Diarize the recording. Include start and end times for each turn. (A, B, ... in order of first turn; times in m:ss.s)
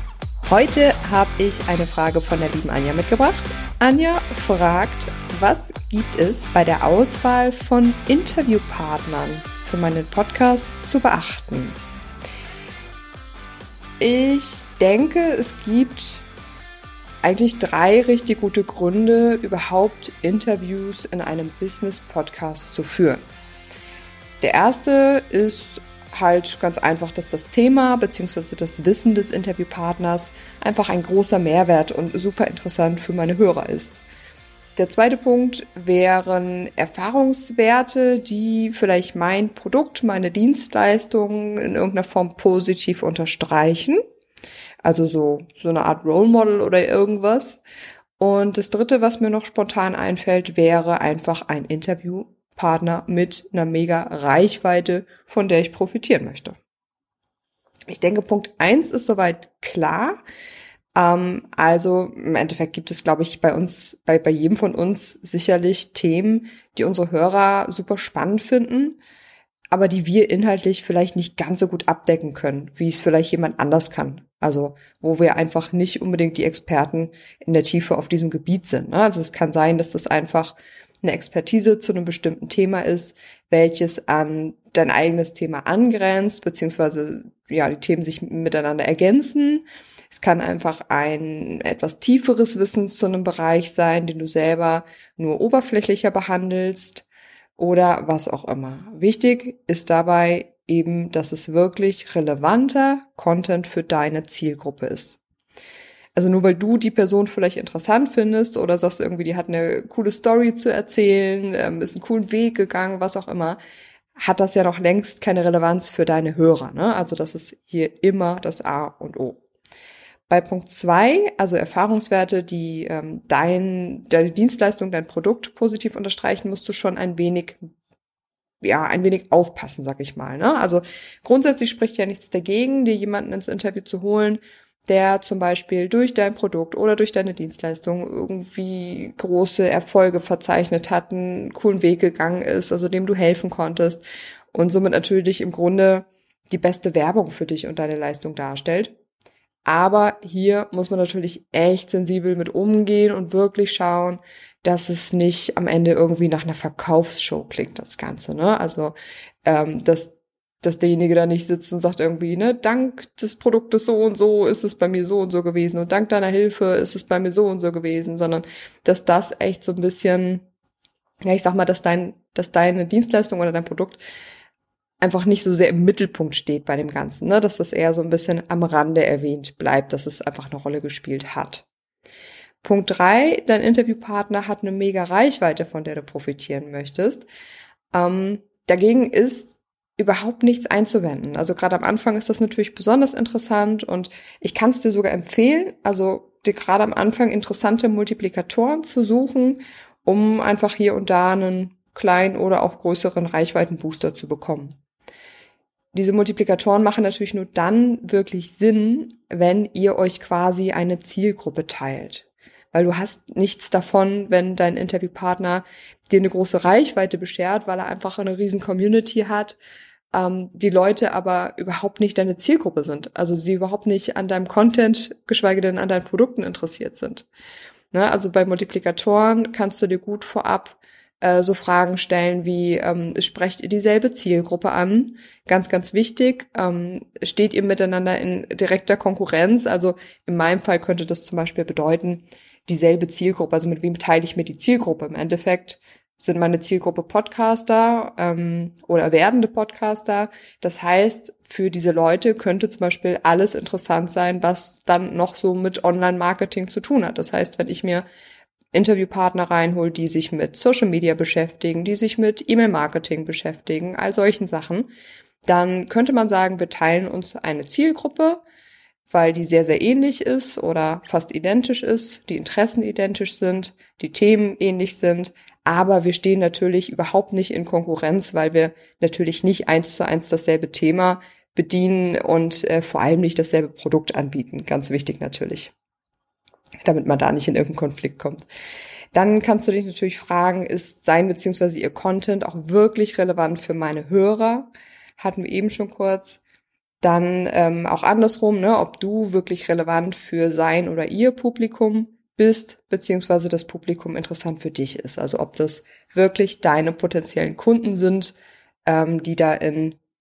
0:00.4-0:11.8 A
0:14.0-0:16.2 A
0:17.2-0:23.3 A
0:24.4-0:34.0 A
0:34.8-0:44.0 A
0:44.8-0:47.6 A
0:48.2-0:56.6 A
0:57.9-1:00.2 A
1:00.9-1:09.0 A
1:09.7-1:45.2 A
1:46.2-1:53.6 A
1:54.2-1:59.4 A
2:00.3-2:07.6 A
2:08.6-2:29.0 A
2:29.6-2:50.4 A
2:51.2-2:54.0 A
2:55.0-3:01.7 A
3:02.6-3:07.3 A
3:07.9-3:24.8 A
3:25.9-3:39.6 A
3:40.1-3:47.3 A
3:47.9-4:18.1 A
4:18.7-4:24.9 A
4:25.4-4:28.4 A
4:29.1-4:45.7 A
4:46.8-4:48.4 A
4:49.1-4:56.4 A
4:57.0-5:08.4 A
5:08.9-5:10.0 A